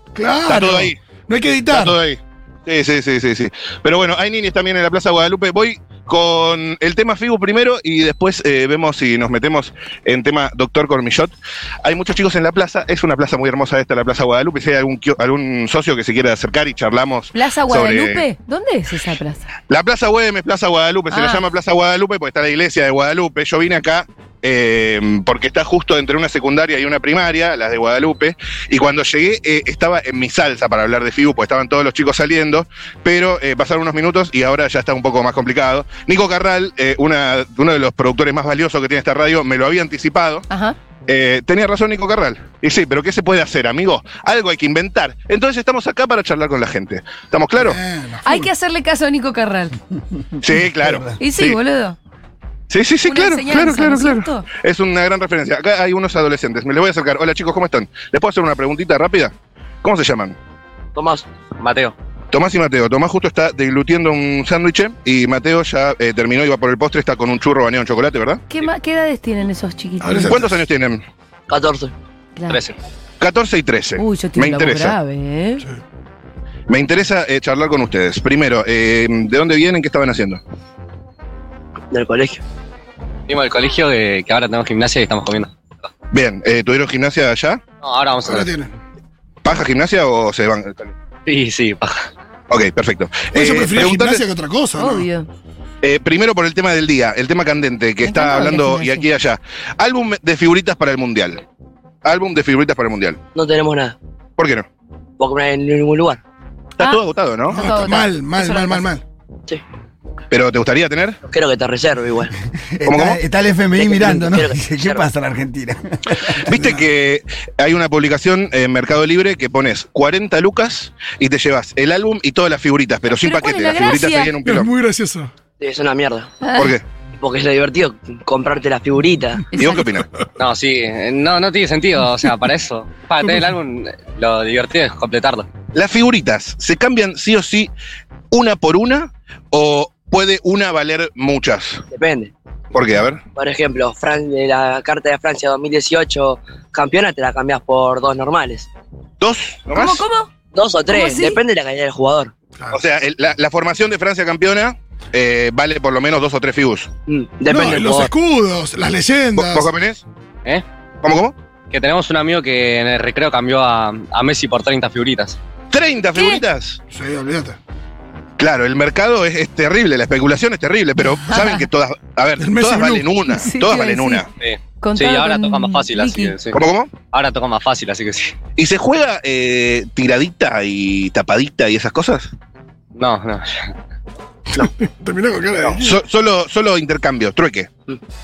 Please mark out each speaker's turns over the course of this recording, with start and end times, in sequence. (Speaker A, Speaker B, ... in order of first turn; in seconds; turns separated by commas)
Speaker A: 0.1-2.0, Speaker B: 0.5-1.0, Speaker B: 1.7-18.2, Speaker C: 17.3-19.5, Speaker B: 19.7-40.5, Speaker C: 21.1-21.4, Speaker C: 40.5-40.8, Speaker B: 41.1-47.8, Speaker A: 47.6-48.5, Speaker C: 48.2-49.8, Speaker B: 50.4-51.6, Speaker D: 50.8-51.1, Speaker C: 51.2-52.0, Speaker B: 52.7-60.4, Speaker C: 53.1-54.5, Speaker E: 61.0-61.3, Speaker F: 61.6-61.9, Speaker B: 62.3-68.4, Speaker C: 68.5-70.4, Speaker A: 70.0-70.5, Speaker B: 70.3-71.0, Speaker E: 71.5-71.9, Speaker C: 72.4-72.6, Speaker F: 72.5-72.8, Speaker B: 73.2-75.0, Speaker C: 74.0-75.6, Speaker B: 76.7-80.4, Speaker E: 81.9-82.4, Speaker F: 83.3-85.5, Speaker B: 86.1-87.6, Speaker F: 87.8-88.5, Speaker A: 88.2-88.7, Speaker B: 89.4-90.9, Speaker F: 91.3-92.0, Speaker B: 92.5-94.2, Speaker A: 93.3-95.1, Speaker C: 94.8-95.3, Speaker B: 95.8-101.4, Speaker C: 98.0-99.1, Speaker B: 102.0-103.2, Speaker E: 103.3-104.0, Speaker B: 104.4-104.7, Speaker E: 105.2-106.2, Speaker B: 106.8-107.6, Speaker C: 106.8-108.9, Speaker A: 107.5-109.0, Speaker B: 110.3-111.2, Speaker E: 111.2-112.3, Speaker D: 112.8-116.6, Speaker B: 112.9-113.2, Speaker E: 113.8-115.1, Speaker B: 116.4-124.7, Speaker C: 123.2-124.3, Speaker A: 124.5-125.3, Speaker E: 125.6-126.4, Speaker C: 126.4-126.7, Speaker B: 126.5-126.8, Speaker E: 127.2-129.5, Speaker C: 129.5-129.9, Speaker B: 129.6-130.1, Speaker F: 130.4-135.5, Speaker B: 135.7-137.7, Speaker B: 138.3-141.8, Speaker E: 141.9-142.3, Speaker B: 142.7-143.2, Speaker E: 143.3-148.7, Speaker B: 149.2-150.1, Speaker C: 149.7-150.3, Speaker E: 150.5-152.3, Speaker C: 150.9-151.4, Speaker B: 152.7-156.9, Speaker E: 157.1-158.1, Speaker A: 157.5-159.7, Speaker B: 159.3-160.0, Speaker B: 161.0-161.3, Speaker F: 161.7-165.4, Speaker B: 165.7-166.8, Speaker C: 166.2-166.4, Speaker A: 166.9-167.6, Speaker B: 168.4-174.3, Speaker C: 171.3-171.6, Speaker A: 172.4-173.1, Speaker C: 173.3-174.2, Speaker F: 174.4-178.4, Speaker C: 174.8-176.3, Speaker B: 176.5-176.9, Speaker B: 178.6-182.3, Speaker F: 183.0-183.7, Speaker A: 184.5-186.0, Speaker B: 185.8-187.7